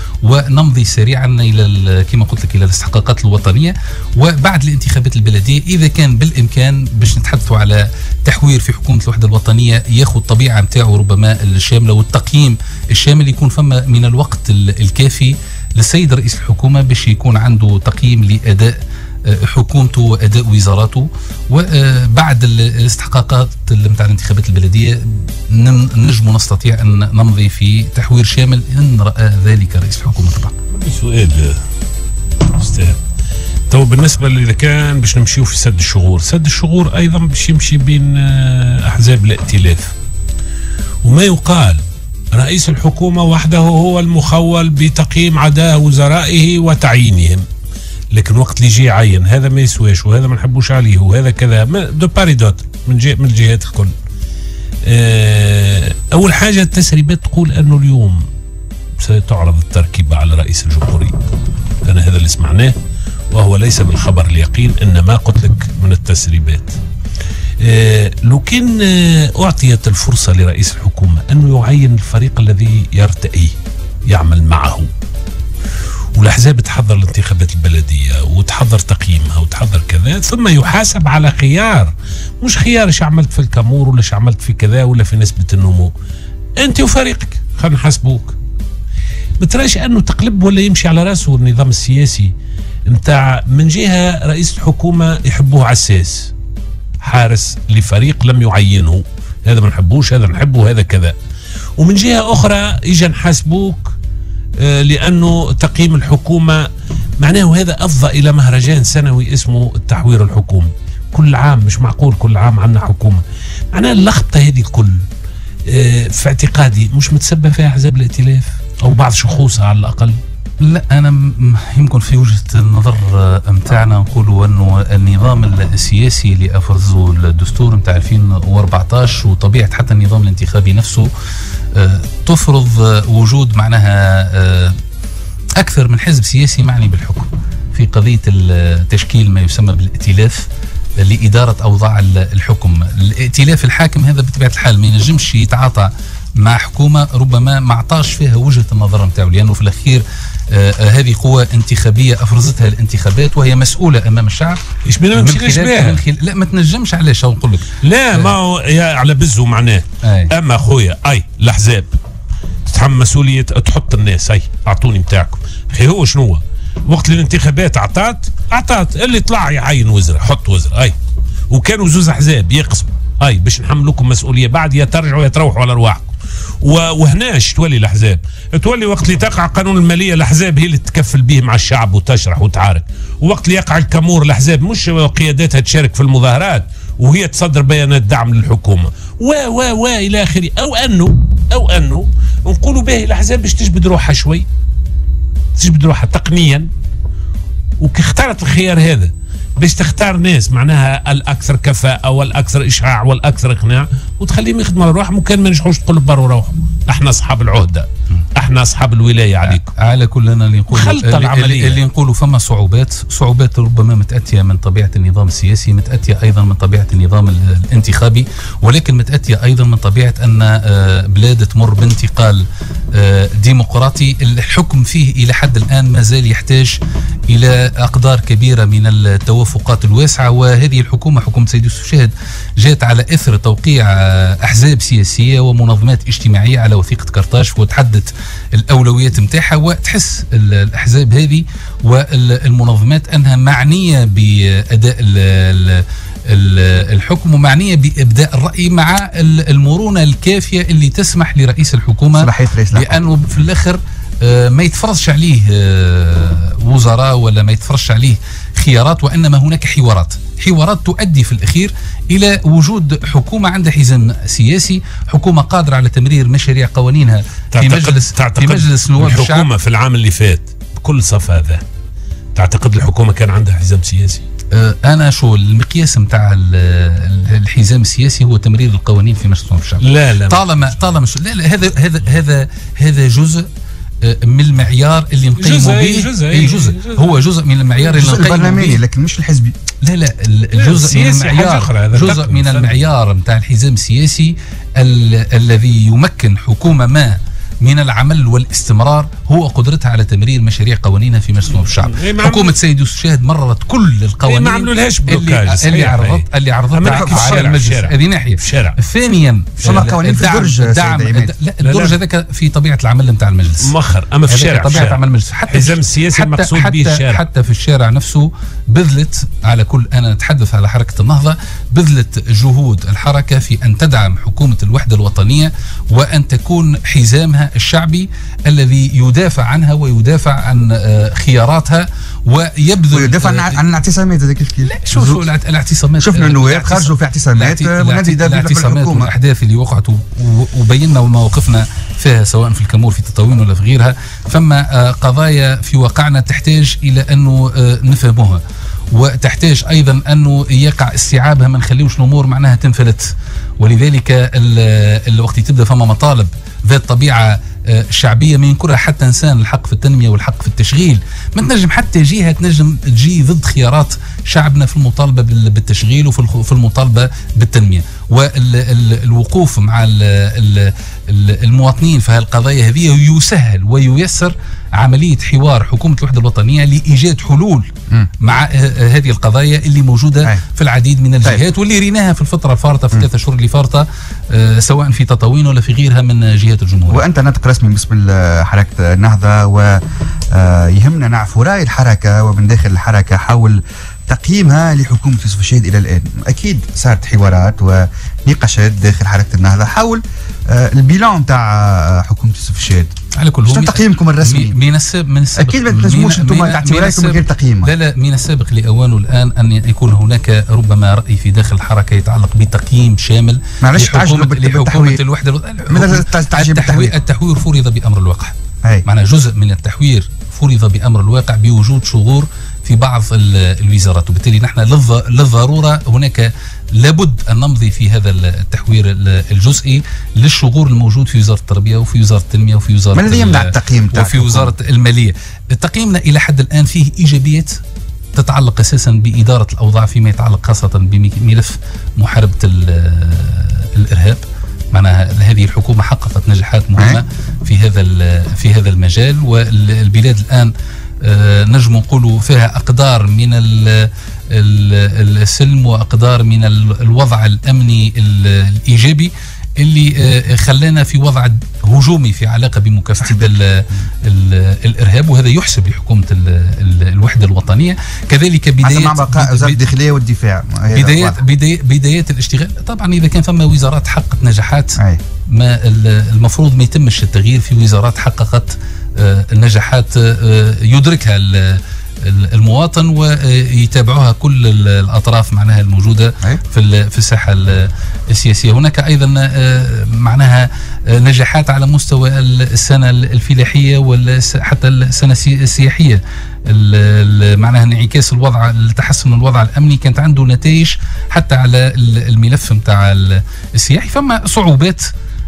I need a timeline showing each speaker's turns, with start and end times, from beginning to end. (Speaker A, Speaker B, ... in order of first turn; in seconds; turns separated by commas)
Speaker A: 0.2-30.5, Speaker B: 30.7-31.6, Speaker B: 32.5-33.0, Speaker B: 33.7-39.9, Speaker B: 41.0-41.8, Speaker B: 42.3-47.4, Speaker B: 48.1-53.9, Speaker B: 54.9-58.2, Speaker B: 59.0-61.2, Speaker B: 61.8-62.8, Speaker B: 63.3-66.8, Speaker B: 67.6-73.5, Speaker B: 74.1-74.9, Speaker B: 76.2-85.9, Speaker B: 86.6-88.3, Speaker B: 89.4-92.3, Speaker B: 92.9-96.3, Speaker B: 97.0-101.1, Speaker B: 101.8-103.9, Speaker B: 104.6-106.6, Speaker B: 107.2-113.2, Speaker B: 113.7-115.0, Speaker B: 115.7-120.2, Speaker A: 120.6-131.1, Speaker A: 131.7-134.8, Speaker A: 135.6-140.5, Speaker A: 141.0-154.6, Speaker B: 154.8-156.0, Speaker A: 155.1-158.3, Speaker B: 157.8-161.9, Speaker A: 160.0-160.3, Speaker B: 162.7-170.9, Speaker B: 171.5-176.1, Speaker B: 176.6-194.4, Speaker B: 195.6-196.7, Speaker B: 197.8-209.7, Speaker A: 209.4-226.8, Speaker B: 210.7-211.8, Speaker A: 227.3-269.5, Speaker C: 252.1-253.0, Speaker B: 267.5-271.6, Speaker B: 272.3-274.2, Speaker A: 274.5-283.5, Speaker B: 279.8-280.5, Speaker A: 284.0-288.8, Speaker B: 285.4-287.2, Speaker C: 287.9-289.5, Speaker A: 289.8-313.7, Speaker B: 290.5-292.8, Speaker B: 301.6-302.6, Speaker B: 304.2-308.8, Speaker C: 306.8-307.4, Speaker C: 309.6-311.3, Speaker B: 311.6-312.0, Speaker B: 313.6-317.2, Speaker A: 314.3-333.6, Speaker C: 332.9-335.2, Speaker A: 334.6-348.4, Speaker C: 336.0-339.1, Speaker A: 348.9-377.7, Speaker A: 378.2-387.0, Speaker C: 386.9-402.9, Speaker A: 403.1-437.6, Speaker C: 403.4-404.6, Speaker C: 405.4-407.7, Speaker C: 413.6-415.0, Speaker C: 415.7-416.9, Speaker C: 432.9-434.5, Speaker A: 438.1-469.6, Speaker C: 446.8-447.0, Speaker C: 463.0-463.9, Speaker C: 468.6-471.2, Speaker A: 470.7-474.8, Speaker A: 475.3-504.9